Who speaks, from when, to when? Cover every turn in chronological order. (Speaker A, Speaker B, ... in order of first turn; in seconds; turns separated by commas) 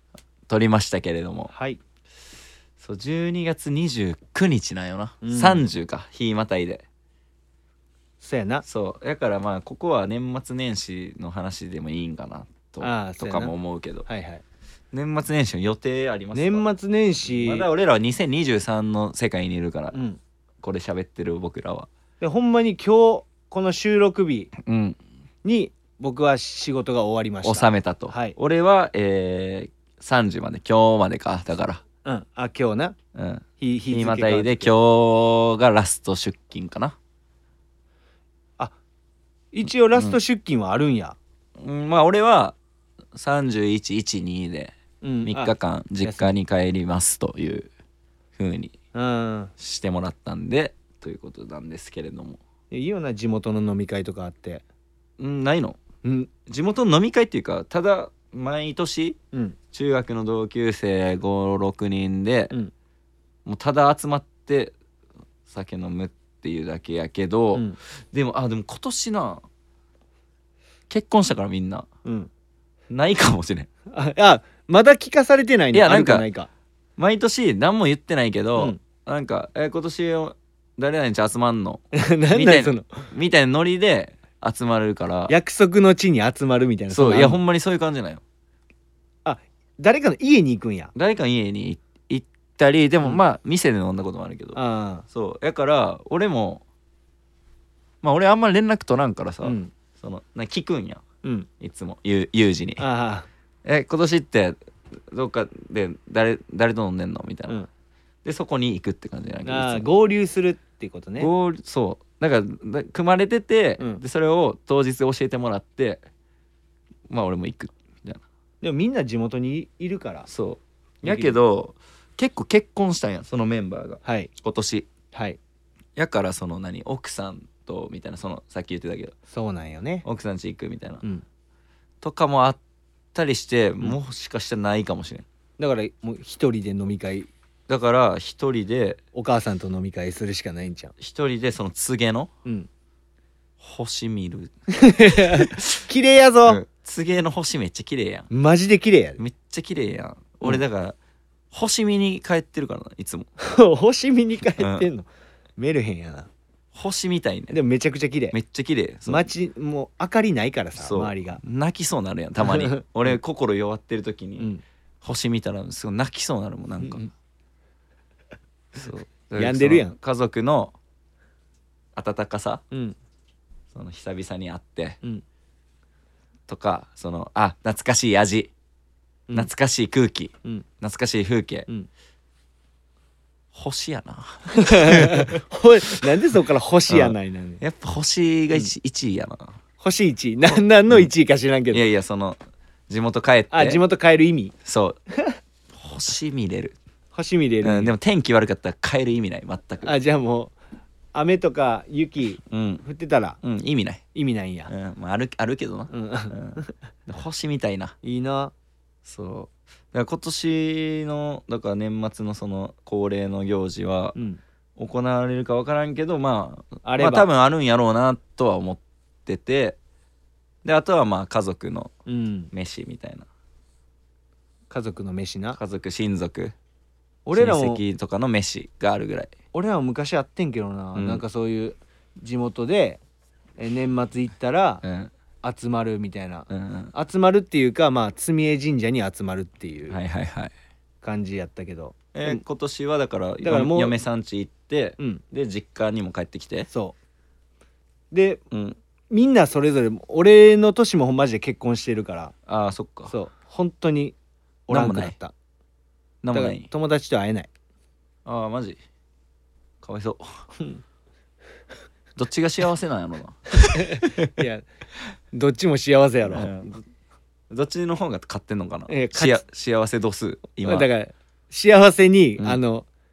Speaker A: 0.5-1.5, Speaker B: 1.5-1.8, Speaker A: 2.8-6.8, Speaker B: 5.2-5.6, Speaker B: 8.2-8.6, Speaker A: 8.6-14.1, Speaker B: 12.8-13.5, Speaker B: 14.1-14.4, Speaker A: 14.9-16.7, Speaker B: 16.3-17.7, Speaker A: 17.2-20.0, Speaker B: 19.9-20.2, Speaker A: 20.6-21.9, Speaker B: 22.2-24.5, Speaker A: 24.6-25.0, Speaker B: 25.4-28.4, Speaker A: 27.4-31.8, Speaker B: 32.0-32.9, Speaker A: 33.1-37.0, Speaker B: 33.6-34.7, Speaker B: 39.5-41.2, Speaker A: 41.6-42.5, Speaker A: 43.1-44.7, Speaker B: 45.0-46.4, Speaker A: 45.2-47.7, Speaker A: 48.4-48.7, Speaker B: 48.9-49.5, Speaker A: 49.6-52.4, Speaker B: 52.7-54.6, Speaker A: 55.2-55.8, Speaker B: 56.0-56.3, Speaker A: 56.5-59.2, Speaker A: 59.7-62.5, Speaker A: 63.4-64.7, Speaker A: 65.5-69.4, Speaker A: 70.9-71.9, Speaker B: 72.0-72.3, Speaker A: 72.9-73.7, Speaker B: 73.9-76.5, Speaker A: 75.7-76.2, Speaker A: 77.0-85.3, Speaker B: 81.9-82.9, Speaker B: 85.3-87.4, Speaker A: 86.9-88.2, Speaker B: 89.2-90.9, Speaker A: 90.9-96.6, Speaker B: 94.5-95.0, Speaker A: 98.0-101.0, Speaker B: 99.4-99.7, Speaker A: 101.6-102.8, Speaker B: 102.8-103.3, Speaker A: 103.6-104.6, Speaker A: 105.1-107.6, Speaker A: 108.2-109.8, Speaker B: 109.4-111.3, Speaker A: 111.2-116.0, Speaker A: 117.1-118.2, Speaker B: 118.6-120.3, Speaker A: 120.3-124.9, Speaker B: 121.0-121.4, Speaker B: 124.0-124.3, Speaker B: 125.1-125.4, Speaker A: 126.0-129.1, Speaker B: 129.3-130.0, Speaker A: 130.0-131.0, Speaker A: 132.0-132.6, Speaker A: 133.1-135.2, Speaker B: 135.6-137.3, Speaker A: 137.7-139.0, Speaker B: 139.1-140.9, Speaker A: 141.0-142.3, Speaker A: 143.6-145.8, Speaker B: 144.7-146.6, Speaker A: 146.4-148.3, Speaker B: 148.3-149.2, Speaker A: 149.2-151.0, Speaker A: 151.5-153.3, Speaker B: 153.4-156.3, Speaker A: 154.6-154.9, Speaker A: 156.7-157.6, Speaker B: 157.5-158.3, Speaker A: 158.3-159.3, Speaker B: 159.1-161.4, Speaker A: 160.8-164.5, Speaker B: 162.4-163.2, Speaker B: 164.4-164.6, Speaker A: 165.0-167.1, Speaker A: 168.7-170.7, Speaker B: 169.3-169.9, Speaker A: 171.9-172.6, Speaker B: 172.7-173.0, Speaker A: 173.7-175.0, Speaker A: 176.5-178.5, Speaker A: 179.3-181.7, Speaker A: 183.5-185.4, Speaker B: 184.6-187.6, Speaker A: 186.9-189.6, Speaker B: 189.8-191.8, Speaker A: 191.7-193.8, Speaker B: 193.5-194.5, Speaker A: 194.6-195.0, Speaker A: 195.7-196.8, Speaker B: 197.1-197.9, Speaker A: 197.6-199.9, Speaker B: 199.8-200.5, Speaker B: 201.1-203.4, Speaker A: 202.5-202.8, Speaker A: 203.4-204.0, Speaker B: 204.1-204.7, Speaker A: 204.7-207.9, Speaker B: 205.9-206.7, Speaker B: 208.0-208.5, Speaker A: 209.0-214.2, Speaker B: 214.1-214.4, Speaker A: 214.8-219.8, Speaker B: 216.8-217.3, Speaker A: 220.6-221.9, Speaker B: 222.1-222.5, Speaker A: 222.5-223.3, Speaker B: 224.7-225.6, Speaker A: 225.5-226.5, Speaker B: 227.2-227.8, Speaker A: 227.3-229.3, Speaker B: 229.5-233.0, Speaker A: 230.9-231.2, Speaker B: 233.6-234.8, Speaker A: 234.8-235.1, Speaker B: 235.4-240.0, Speaker A: 236.5-236.9, Speaker A: 239.9-240.5, Speaker B: 241.0-242.4, Speaker A: 242.1-246.7, Speaker B: 243.4-244.0, Speaker B: 246.7-246.9, Speaker B: 248.1-248.4, Speaker A: 248.5-248.8, Speaker B: 249.1-252.3, Speaker A: 252.5-253.1, Speaker B: 253.1-254.2, Speaker B: 254.7-255.3, Speaker A: 254.7-255.2, Speaker A: 256.2-256.7, Speaker B: 256.3-257.5, Speaker A: 258.2-258.8, Speaker A: 259.8-260.4, Speaker A: 262.1-264.3, Speaker B: 263.7-264.6, Speaker B: 265.3-266.5, Speaker A: 266.3-266.8, Speaker A: 267.5-270.9, Speaker B: 268.9-269.4, Speaker B: 270.6-272.9